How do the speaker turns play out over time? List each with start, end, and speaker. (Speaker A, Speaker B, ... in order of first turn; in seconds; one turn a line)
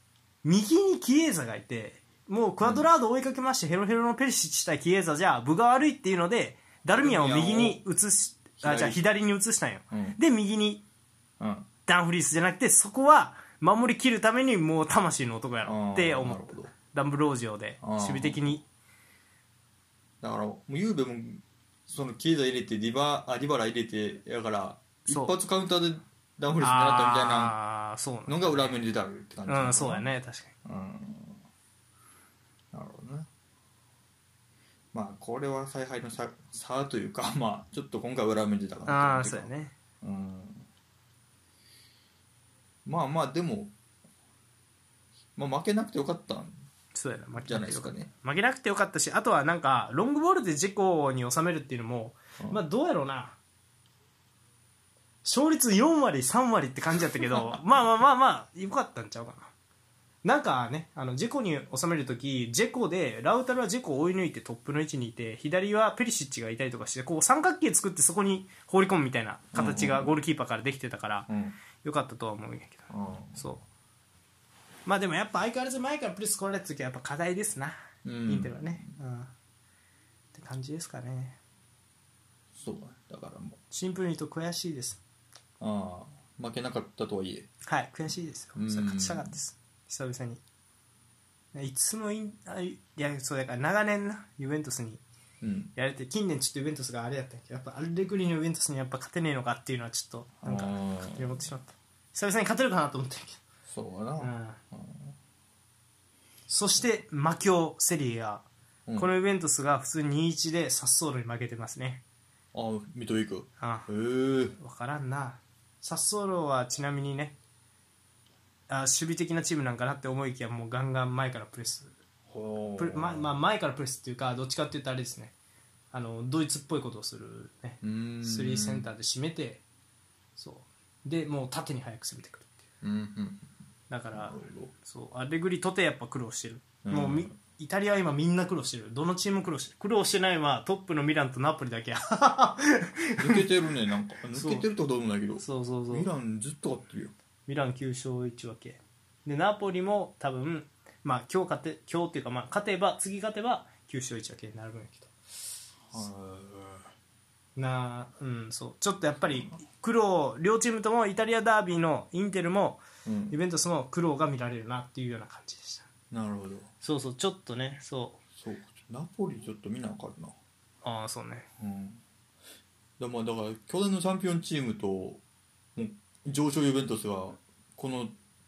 Speaker A: 0.4-10.8
Speaker B: 2.6-2.9
Speaker B: 6.9-7.8
Speaker B: 8.6-9.0
Speaker B: 9.9-10.2
Speaker B: 11.4-11.7
Speaker A: 11.9-18.6
Speaker B: 15.7-16.7
Speaker B: 17.8-18.5
Speaker B: 20.2-27.6
Speaker A: 25.1-25.3
Speaker A: 26.6-28.8
Speaker B: 28.3-30.1
Speaker A: 29.5-30.5
Speaker B: 30.6-31.4
Speaker B: 32.7-33.3
Speaker B: 34.9-40.7
Speaker A: 38.9-39.7
Speaker B: 42.9-43.7
Speaker B: 45.4-46.7
Speaker A: 46.9-53.4
Speaker B: 47.4-48.1
Speaker A: 55.2-59.5
Speaker B: 57.3-57.6
Speaker A: 60.2-71.3
Speaker B: 69.5-70.2
Speaker B: 71.3-71.6
Speaker A: 71.8-73.7
Speaker B: 72.9-73.4
Speaker A: 74.9-77.8
Speaker B: 78.0-78.9
Speaker A: 78.3-79.3
Speaker A: 80.3-81.4
Speaker B: 82.5-83.6
Speaker A: 83.7-85.0
Speaker B: 85.6-87.5
Speaker A: 87.7-90.4
Speaker B: 88.5-89.4
Speaker A: 91.5-95.0
Speaker B: 95.4-95.7
Speaker A: 95.8-103.4
Speaker B: 100.4-101.3
Speaker B: 103.7-105.2
Speaker A: 104.2-104.6
Speaker A: 106.5-108.5
Speaker A: 109.0-112.0
Speaker B: 112.5-114.6
Speaker A: 113.6-113.9
Speaker A: 114.6-117.4
Speaker A: 118.7-121.9
Speaker B: 122.3-123.3
Speaker A: 122.8-125.3
Speaker A: 125.9-129.6
Speaker B: 127.8-128.9
Speaker A: 130.4-132.5
Speaker B: 132.8-133.5
Speaker A: 133.9-143.5
Speaker B: 134.1-134.7
Speaker B: 136.8-137.3
Speaker B: 143.2-147.1
Speaker A: 144.3-144.7
Speaker A: 145.4-146.1
Speaker A: 147.5-155.1
Speaker B: 155.9-156.9
Speaker A: 157.6-165.8
Speaker B: 163.1-163.4
Speaker B: 166.1-166.7
Speaker A: 166.8-168.2
Speaker B: 168.4-170.3
Speaker A: 170.8-171.5
Speaker B: 171.6-172.0
Speaker B: 173.0-175.2
Speaker B: 175.8-178.2